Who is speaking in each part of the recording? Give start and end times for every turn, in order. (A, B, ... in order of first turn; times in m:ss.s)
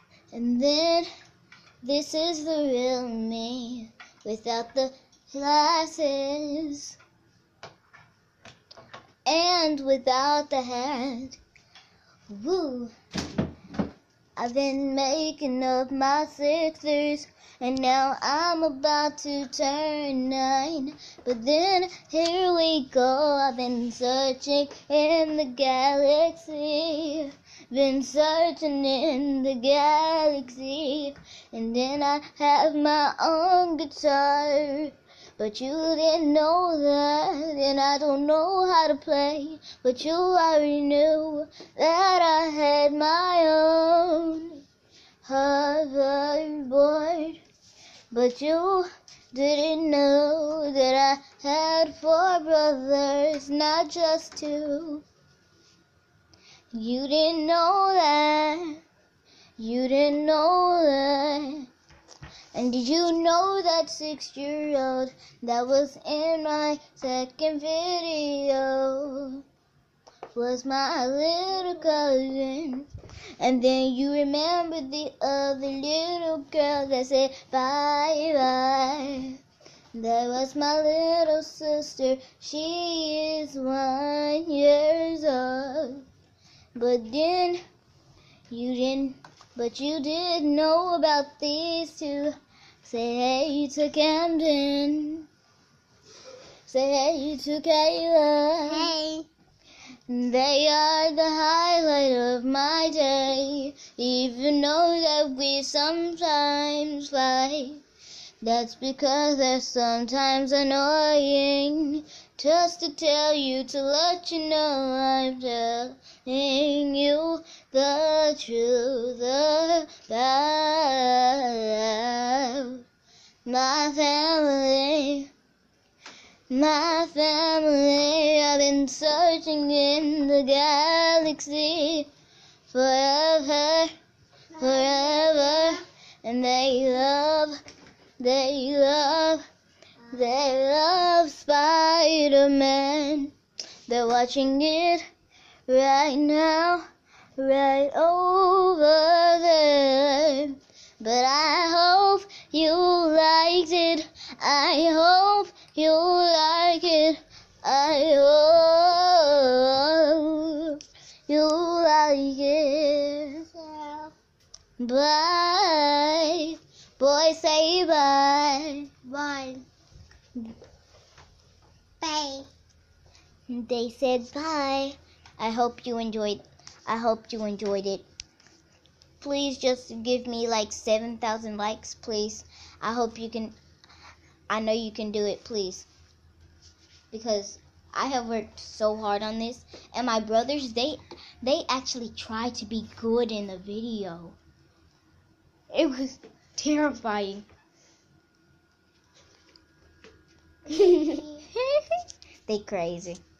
0:00.3-0:01.1 A
0:01.8-0:07.0 A
0:09.2-0:11.4 A
0:12.3-0:12.9 A
0:14.4-0:44.6 A
0:45.2-0:47.4 A
0:48.1-0:55.0 A
0:56.7-0:58.8 A
0:59.6-1:01.7 A
1:02.5-1:09.4 A
1:10.3-1:12.9 A
1:13.4-1:19.4 A
1:19.9-1:26.0 A
1:26.8-1:27.6 A
1:28.5-1:35.3 A
1:36.7-1:38.9 A
1:38.7-1:39.3 B
1:40.1-1:47.8 A
1:48.4-2:02.8 A
2:03.4-2:05.3 A
2:06.5-2:12.1 A
2:12.7-2:13.9 A
2:14.5-2:17.6 A
2:18.2-2:19.4 A
2:20.1-2:23.3 A
2:23.9-2:25.0 A
2:25.7-2:26.8 A
2:27.4-2:43.4 A
2:43.7-2:44.1 B
2:44.8-2:49.6 A
2:52.0-2:52.4 B
2:53.5-2:58.0 A
2:59.2-3:03.5 A
3:04.5-3:05.9 A
3:07.1-3:14.4 A
3:15.7-3:17.4 A
3:20.7-3:23.2 A
3:20.8-3:21.3 B